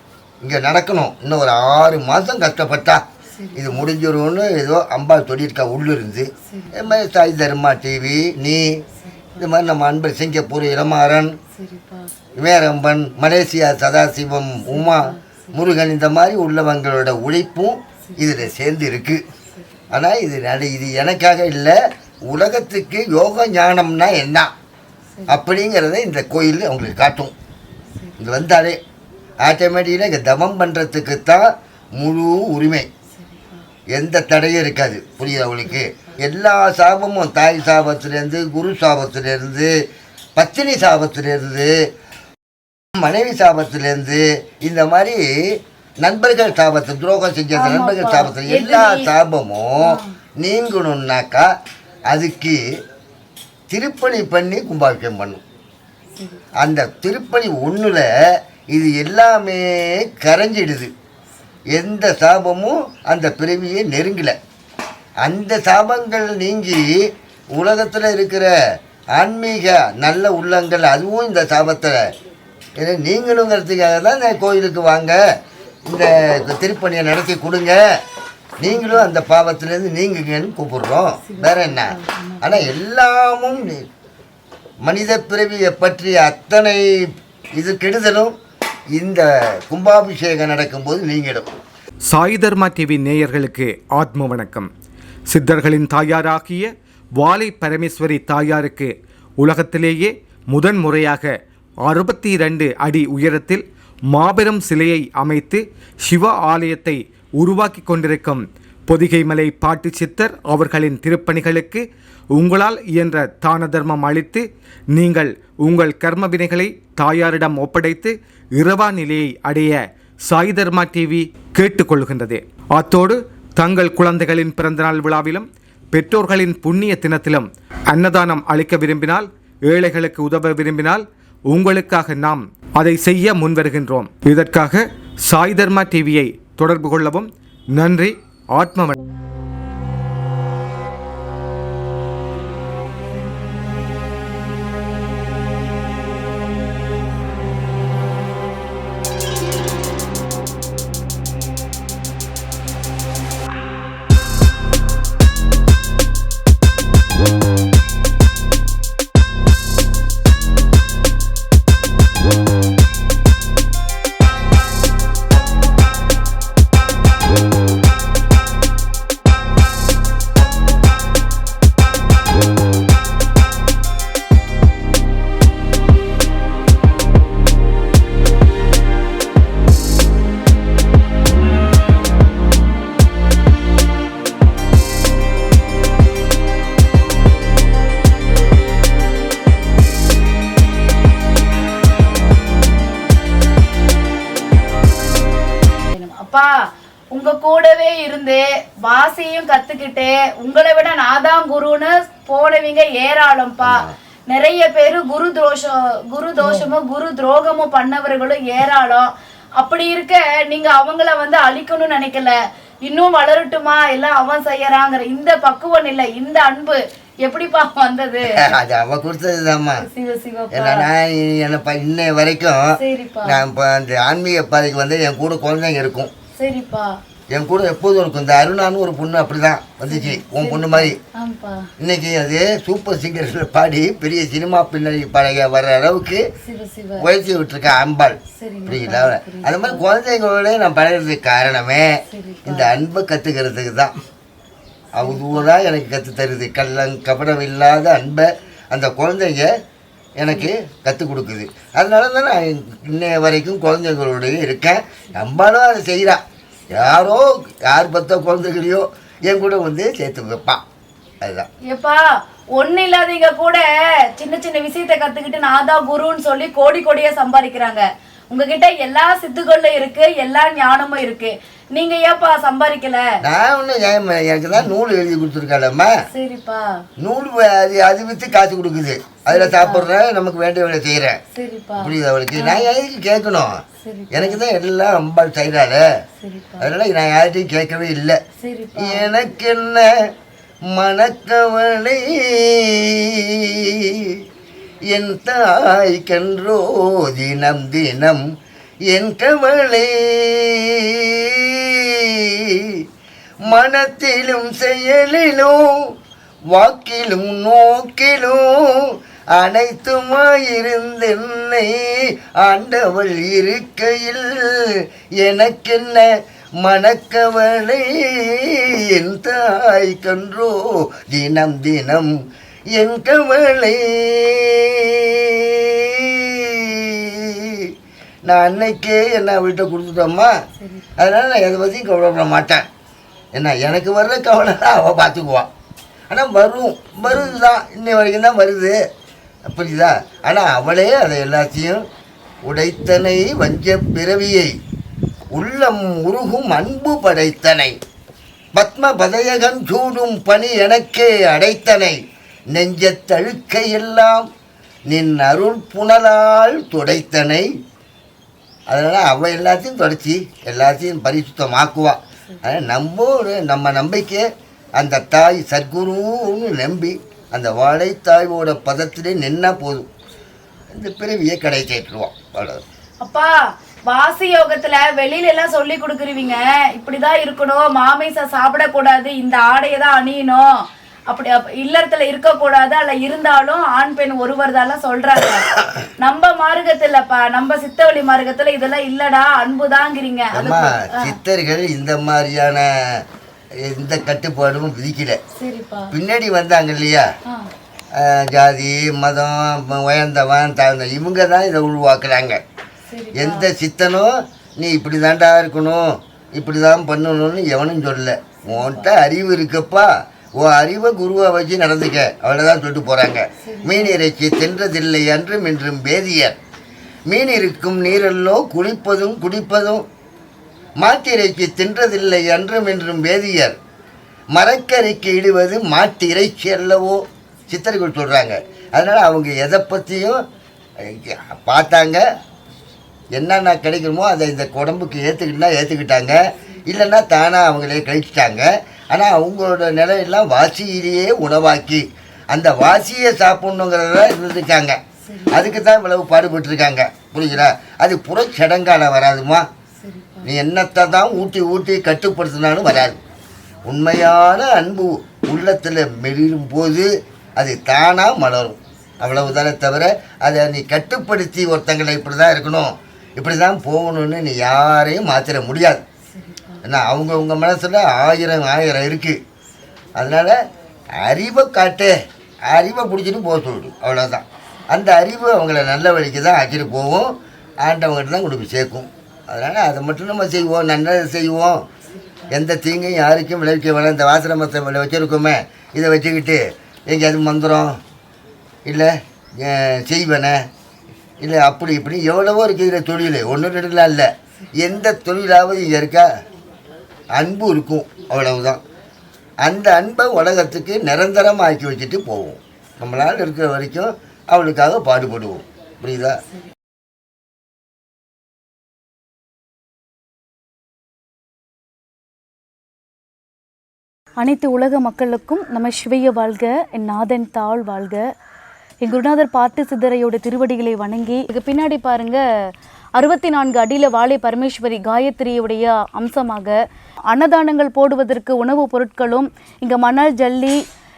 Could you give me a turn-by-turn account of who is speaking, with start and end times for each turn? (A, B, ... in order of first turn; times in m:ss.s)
0:00.4-0:03.0 A
0:03.3-0:03.8 B
0:03.5-0:08.8 A
0:06.5-0:07.0 B
0:09.0-0:09.4 B
0:09.4-0:11.3 A
0:11.5-0:12.1 B
0:12.4-0:19.2 A
0:14.7-0:15.4 B
0:19.9-0:21.8 A
0:22.3-0:24.5 A
0:25.2-0:27.3 A
0:28.2-0:28.8 A
0:29.4-0:32.9 A
0:33.2-0:33.6 B
0:33.9-0:39.7 A
0:40.4-0:41.7 A
0:43.0-0:45.2 A
0:46.0-0:51.5 A
0:47.6-0:49.1 B
0:49.8-0:50.1 B
0:52.1-0:52.6 A
0:53.7-0:55.4 A
0:56.2-0:56.4 B
0:56.6-0:58.1 A
0:58.7-1:00.9 A
1:01.7-1:04.3 A
1:05.2-1:06.9 A
1:07.5-1:08.5 A
1:09.1-1:12.0 A
1:12.8-1:15.2 A
1:15.9-1:17.8 A
1:18.6-1:23.8 A
1:18.7-1:19.1 B
1:21.2-1:22.7 B
1:24.8-1:26.8 A
1:27.6-1:28.3 A
1:28.9-1:31.5 A
1:32.1-1:34.7 C
1:35.3-1:41.3 C
1:41.8-2:19.0 C
3:15.9-3:16.5 B
3:17.1-3:38.5 B
3:23.6-3:23.9 A
3:38.3-3:39.8 A
3:39.8-3:40.8 B
3:40.5-3:46.1 A
3:42.8-3:43.4 B
3:46.4-3:47.0 B
3:47.3-3:51.0 A
3:49.9-3:51.6 B
3:51.8-3:56.2 A
3:56.4-3:57.1 B
3:57.0-4:01.9 A
3:58.3-3:59.9 B
4:02.1-4:02.7 B
4:02.4-4:03.9 A
4:04.9-4:09.5 A
4:05.0-4:05.4 B
4:10.2-4:20.6 A
4:21.2-4:21.5 A
4:21.7-4:22.0 B
4:22.6-4:33.0 B
4:33.2-4:35.9 A
4:36.1-4:36.7 B
4:37.0-4:41.2 A
4:39.2-4:39.9 B
4:41.3-4:42.7 B
4:41.8-4:43.6 A
4:43.8-4:44.4 B
4:44.1-4:45.8 A
4:46.2-4:46.7 B
4:46.6-4:48.2 A
4:48.4-4:49.1 B
4:48.8-4:49.9 A
4:50.7-4:54.2 A
4:54.9-4:58.2 A
4:58.9-5:02.7 A
5:03.4-5:05.9 A
5:06.5-5:16.1 A
5:16.6-5:22.1 A
5:22.8-5:27.7 A
5:28.2-5:30.3 A
5:30.6-5:30.9 B
5:31.0-5:32.7 A
5:33.4-5:35.5 A
5:36.1-5:38.8 A
5:39.5-5:41.8 A
5:42.4-5:44.5 A
5:45.3-5:47.8 A
5:48.6-5:52.0 A
5:52.5-5:54.3 A
5:54.9-5:57.5 A
5:58.7-6:04.2 A
6:04.8-6:09.9 A
6:10.7-6:12.6 A
6:13.0-6:13.3 B
6:13.9-6:20.4 B
6:21.1-6:25.5 B
6:26.0-6:31.1 B
6:30.3-6:33.0 A
6:33.6-6:35.2 A
6:35.4-6:35.9 B
6:35.9-6:37.1 A
6:38.0-6:42.4 A
6:42.9-6:43.4 B
6:43.1-6:56.4 A
6:48.4-6:48.9 B
6:53.4-6:54.0 B
6:57.1-6:59.9 A
7:00.8-7:03.6 A
7:04.3-7:10.2 A
7:10.8-7:12.0 A
7:13.1-7:24.8 A
7:25.0-7:25.6 B
7:25.3-7:29.4 A
7:29.8-7:30.3 B
7:30.2-7:33.0 A
7:33.7-7:45.8 A
7:46.2-7:46.5 B
7:46.6-7:49.2 A
7:50.0-7:50.4 A
7:51.0-7:51.9 A
7:52.5-8:01.6 A
8:02.3-8:07.8 A
8:08.6-8:10.4 A
8:11.2-8:14.1 A
8:14.6-8:16.1 A
8:17.1-8:18.6 A
8:19.4-8:26.2 A
8:34.2-8:38.0 B
8:38.8-8:42.2 B
8:43.0-8:46.6 B
8:47.1-8:50.6 B